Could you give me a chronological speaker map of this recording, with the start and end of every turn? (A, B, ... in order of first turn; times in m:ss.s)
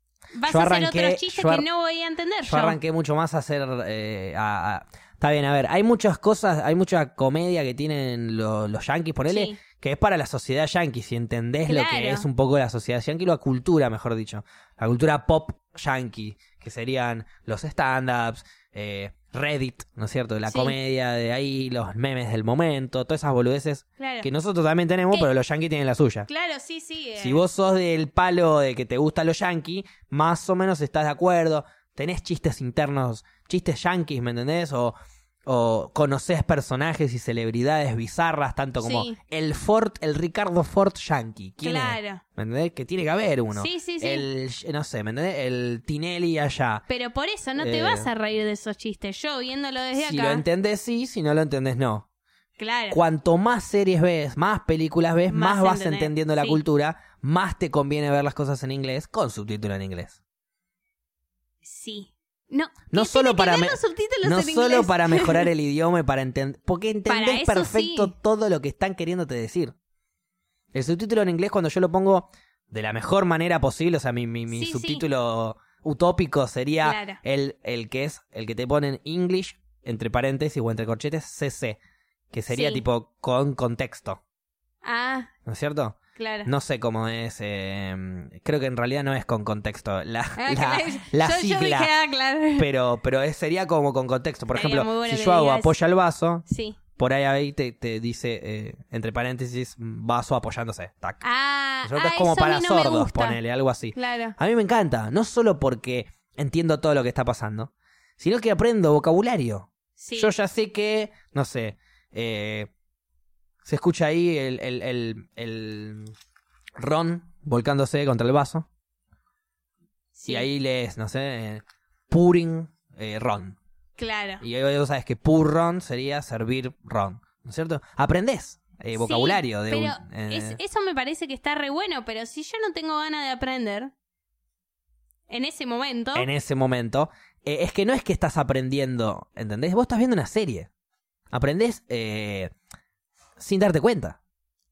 0:00.4-0:02.8 A
0:00.5-0:01.7 B
0:02.5-0:26.3 B
0:09.3-0:09.6 A
0:11.7-0:12.3 A
0:20.5-0:20.8 A
0:24.0-0:24.3 A
0:26.3-0:27.4 A
0:27.2-0:46.8 B
0:38.8-0:39.2 A
0:41.6-0:42.2 A
0:43.6-0:44.3 A
0:46.9-0:50.4 A
0:47.6-0:48.1 B
0:50.0-0:52.1 B
0:52.6-0:53.0 A
0:52.9-1:00.2 B
0:55.3-0:56.6 A
1:01.6-1:05.5 A
1:02.9-1:09.8 B
1:07.1-1:08.1 A
1:10.7-1:21.8 B
1:14.5-1:15.0 A
1:16.8-1:17.2 A
1:22.3-1:24.2 B
1:22.5-1:22.8 A
1:24.8-1:25.3 A
1:25.4-1:31.9 B
1:26.2-1:26.5 A
1:30.4-1:32.7 A
1:32.6-1:41.2 B
1:34.5-1:35.7 A
1:36.5-1:36.8 A
1:41.2-1:43.4 A
1:41.8-1:52.7 B
1:44.0-1:44.4 A
1:50.0-1:50.3 A
1:53.6-1:56.1 B
1:56.8-1:58.7 B
2:00.2-2:00.5 A
2:00.3-2:03.6 B
2:04.0-2:04.4 A
2:04.4-2:10.6 B
2:09.0-2:13.9 A
2:15.3-2:16.3 A
2:16.2-2:20.7 B
2:21.3-2:22.5 B
2:23.4-2:24.2 B